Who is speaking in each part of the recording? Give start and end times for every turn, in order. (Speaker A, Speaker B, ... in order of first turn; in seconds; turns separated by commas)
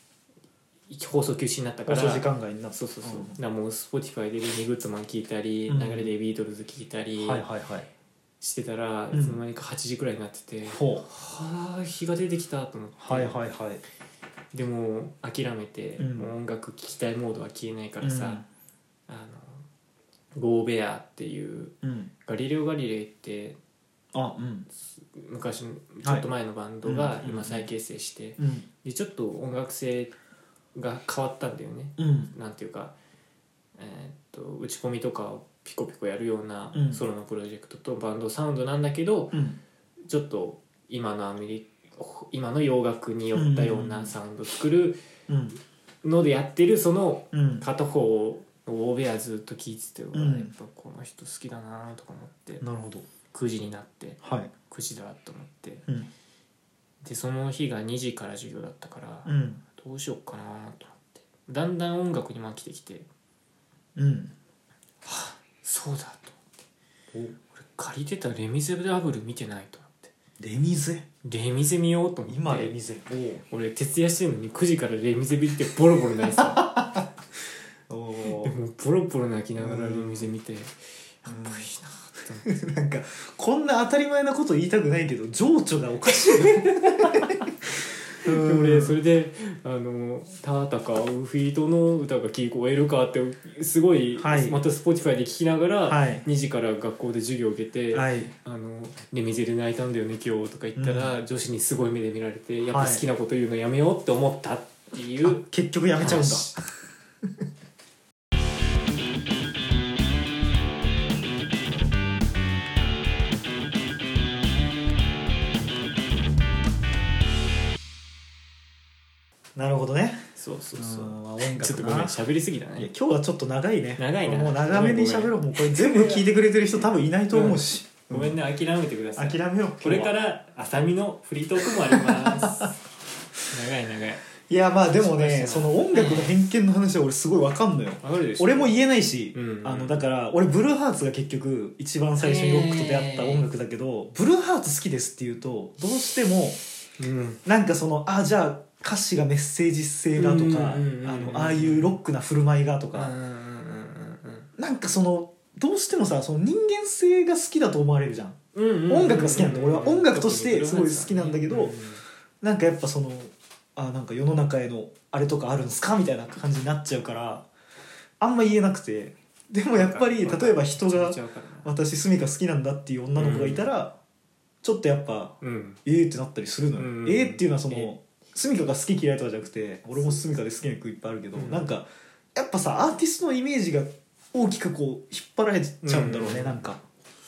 Speaker A: 0.9-7.5, Speaker B: 1.9-3.3, Speaker B: 5.7-6.1, Speaker B: 7.2-7.9, Speaker A: 8.4-13.4, Speaker B: 9.1-9.4, Speaker B: 10.7-11.0, Speaker B: 13.0-13.8, Speaker A: 14.5-18.4, Speaker B: 16.0-16.3, Speaker B: 18.0-18.4, Speaker A: 19.1-19.6, Speaker A: 20.4-23.6, Speaker B: 21.8-22.1, Speaker B: 24.1-24.7, Speaker A: 24.9-30.1, Speaker B: 26.8-27.7, Speaker B: 28.4-28.6, Speaker A: 30.7-32.9, Speaker B: 32.0-32.3, Speaker A: 33.8-39.4, Speaker B: 36.7-37.0, Speaker B: 39.3-39.6, Speaker A: 40.1-45.0, Speaker B: 43.3-44.1, Speaker B: 45.3-45.6, Speaker A: 46.0-52.6, Speaker B: 47.3-47.6, Speaker B: 50.1-50.5, Speaker B: 52.6-53.0, Speaker A: 53.3-55.9, Speaker B: 54.2-54.5, Speaker A: 57.0-63.1, Speaker B: 59.2-59.6, Speaker B: 64.0-64.3, Speaker A: 65.0-66.3, Speaker B: 67.1-67.4, Speaker A: 67.5-70.1, Speaker B: 70.4-71.1, Speaker A: 71.2-72.8, Speaker B: 72.3-73.4, Speaker A: 73.5-76.6, Speaker B: 76.3-77.0, Speaker B: 77.9-78.5, Speaker A: 78.2-82.5, Speaker B: 79.6-80.3, Speaker B: 81.2-81.7, Speaker B: 82.4-87.4, Speaker A: 86.3-87.4, Speaker B: 88.2-89.0, Speaker A: 88.2-105.4, Speaker B: 94.2-94.6, Speaker B: 95.9-96.2, Speaker B: 97.9-98.3, Speaker B: 100.8-101.1, Speaker B: 102.7-103.0, Speaker B: 105.2-106.5, Speaker A: 106.0-106.6, Speaker B: 119.5-120.2, Speaker A: 120.3-122.9, Speaker B: 120.7-122.2, Speaker B: 122.8-128.4, Speaker A: 124.0-126.2, Speaker A: 127.3-132.8, Speaker B: 129.2-130.1, Speaker B: 131.9-132.7, Speaker A: 133.5-134.2, Speaker B: 134.5-146.6, Speaker A: 134.9-136.3, Speaker A: 138.0-138.8, Speaker A: 139.3-140.0, Speaker A: 142.2-143.4, Speaker A: 147.0-147.4, Speaker B: 147.4-153.1, Speaker A: 150.2-152.0, Speaker A: 152.9-154.5, Speaker B: 154.6-158.4, Speaker A: 158.5-162.0, Speaker B: 158.9-161.8, Speaker B: 162.4-167.5, Speaker B: 168.2-173.9, Speaker A: 169.7-171.7, Speaker A: 173.2-173.7, Speaker B: 174.6-186.8, Speaker A: 175.4-175.8, Speaker A: 176.8-177.9, Speaker A: 181.3-181.7, Speaker A: 185.8-186.6